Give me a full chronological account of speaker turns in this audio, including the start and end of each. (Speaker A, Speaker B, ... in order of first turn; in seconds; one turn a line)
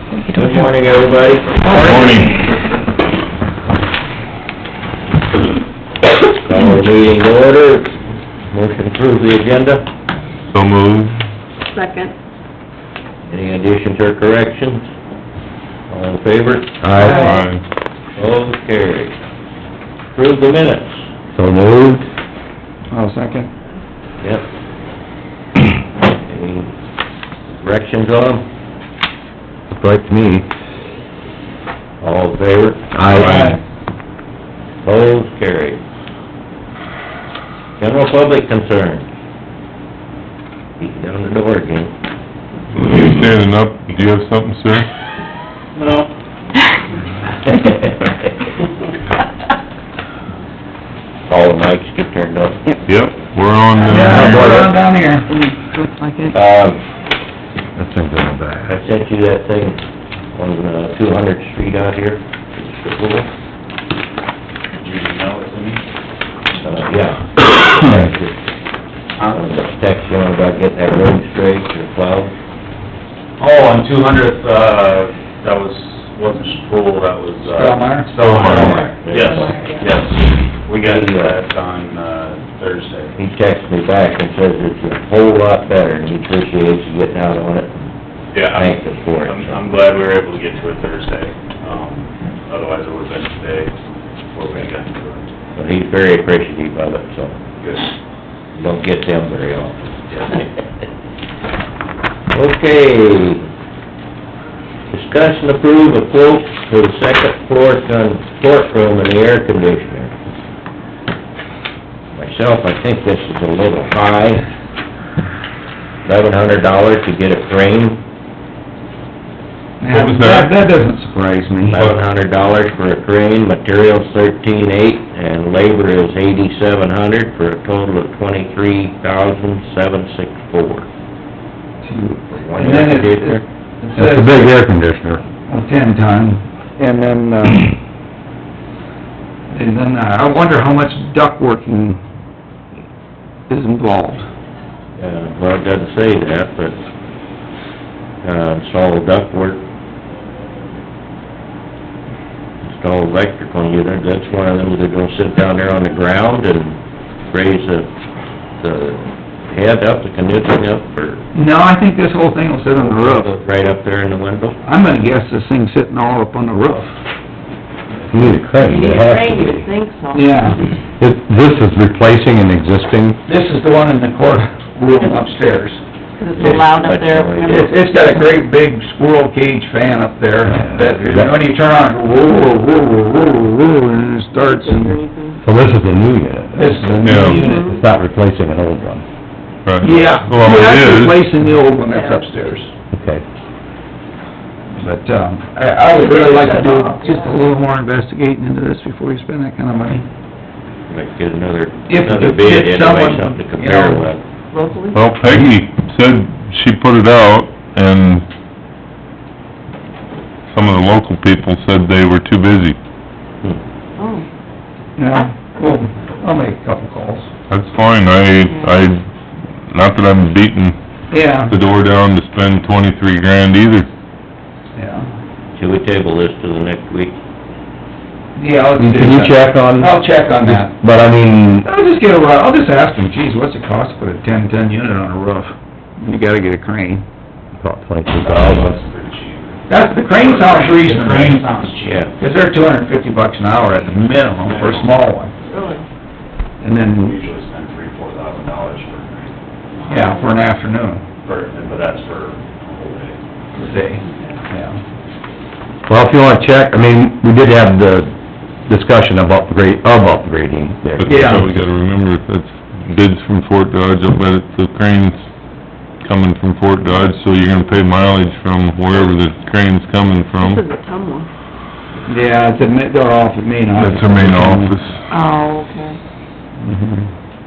Speaker A: 0.3-2.2
Speaker B: 1.7-2.4
Speaker A: 6.1-8.0
Speaker A: 8.5-9.9
Speaker B: 10.5-11.2
Speaker C: 11.7-12.1
Speaker A: 13.3-14.9
Speaker A: 15.9-17.3
Speaker D: 16.8-17.4
Speaker B: 17.1-17.6
Speaker A: 18.2-19.1
Speaker A: 20.1-21.0
Speaker D: 21.4-22.1
Speaker E: 22.9-23.5
Speaker A: 26.3-26.7
Speaker A: 27.5-28.5
Speaker D: 29.7-30.5
Speaker A: 32.0-33.0
Speaker D: 32.9-33.5
Speaker E: 33.1-33.6
Speaker A: 34.8-35.8
Speaker A: 37.8-39.1
Speaker A: 40.8-41.9
Speaker B: 42.8-44.9
Speaker A: 51.3-52.8
Speaker B: 52.9-54.7
Speaker E: 53.8-55.4
Speaker D: 53.9-54.7
Speaker C: 55.3-56.3
Speaker A: 56.3-56.8
Speaker D: 57.8-58.8
Speaker A: 58.7-59.8
Speaker A: 60.4-63.3
Speaker F: 64.8-65.8
Speaker A: 66.6-68.4
Speaker A: 69.2-72.3
Speaker F: 73.4-83.2
Speaker E: 77.5-78.9
Speaker A: 78.2-79.8
Speaker B: 78.5-78.8
Speaker C: 79.2-79.8
Speaker A: 80.7-81.4
Speaker A: 83.2-87.7
Speaker F: 88.3-93.7
Speaker A: 88.5-89.7
Speaker F: 94.3-95.2
Speaker A: 95.5-97.4
Speaker F: 97.6-97.8
Speaker A: 98.5-100.7
Speaker A: 102.3-103.5
Speaker A: 104.9-110.1
Speaker A: 112.1-114.4
Speaker A: 116.0-118.0
Speaker E: 119.8-121.8
Speaker B: 119.9-120.5
Speaker A: 121.7-130.9
Speaker E: 131.8-134.5
Speaker A: 132.3-133.4
Speaker D: 134.0-135.2
Speaker E: 135.5-137.8
Speaker E: 139.5-142.0
Speaker E: 143.5-144.3
Speaker A: 145.0-146.8
Speaker A: 148.2-149.6
Speaker A: 152.7-157.9
Speaker A: 158.6-161.3
Speaker E: 161.3-163.3
Speaker A: 162.8-164.6
Speaker E: 164.6-166.9
Speaker D: 168.1-169.7
Speaker C: 168.6-170.5
Speaker E: 170.1-170.6
Speaker D: 171.0-173.2
Speaker E: 173.3-175.8
Speaker C: 176.2-177.9
Speaker A: 176.3-177.7
Speaker E: 177.4-185.0
Speaker D: 180.5-181.3
Speaker C: 184.4-185.4
Speaker D: 185.4-189.0
Speaker E: 186.5-187.8
Speaker B: 187.0-187.4
Speaker C: 187.3-187.8
Speaker B: 189.7-191.2
Speaker E: 189.8-192.7
Speaker C: 191.9-192.2
Speaker D: 192.9-193.2
Speaker E: 194.7-200.0
Speaker C: 196.0-197.2
Speaker A: 200.9-204.2
Speaker E: 201.9-204.1
Speaker C: 204.5-205.1
Speaker B: 204.9-208.3
Speaker B: 210.5-212.8
Speaker C: 214.0-214.3
Speaker E: 215.0-217.3
Speaker B: 217.5-219.0
Speaker C: 218.5-218.8
Speaker B: 219.7-220.8
Speaker E: 221.1-221.5
Speaker B: 221.5-223.9
Speaker E: 224.8-225.1
Speaker A: 225.6-227.2
Speaker E: 228.4-230.7
Speaker D: 228.8-231.7
Speaker E: 231.6-237.0
Speaker D: 237.6-238.8
Speaker F: 238.2-242.1
Speaker E: 239.7-241.5
Speaker A: 241.8-242.1
Speaker E: 242.2-245.3
Speaker F: 244.3-244.9
Speaker F: 245.4-245.8
Speaker C: 245.5-245.8
Speaker E: 246.6-247.2
Speaker F: 246.9-249.9
Speaker E: 249.9-251.0
Speaker F: 251.2-253.2
Speaker E: 253.6-254.8
Speaker D: 255.9-258.1
Speaker D: 258.7-261.6
Speaker B: 261.0-265.2
Speaker E: 261.1-261.5
Speaker B: 266.0-270.6
Speaker C: 270.4-271.3
Speaker E: 272.1-274.8
Speaker B: 273.8-275.0
Speaker C: 275.1-276.0
Speaker E: 276.6-277.1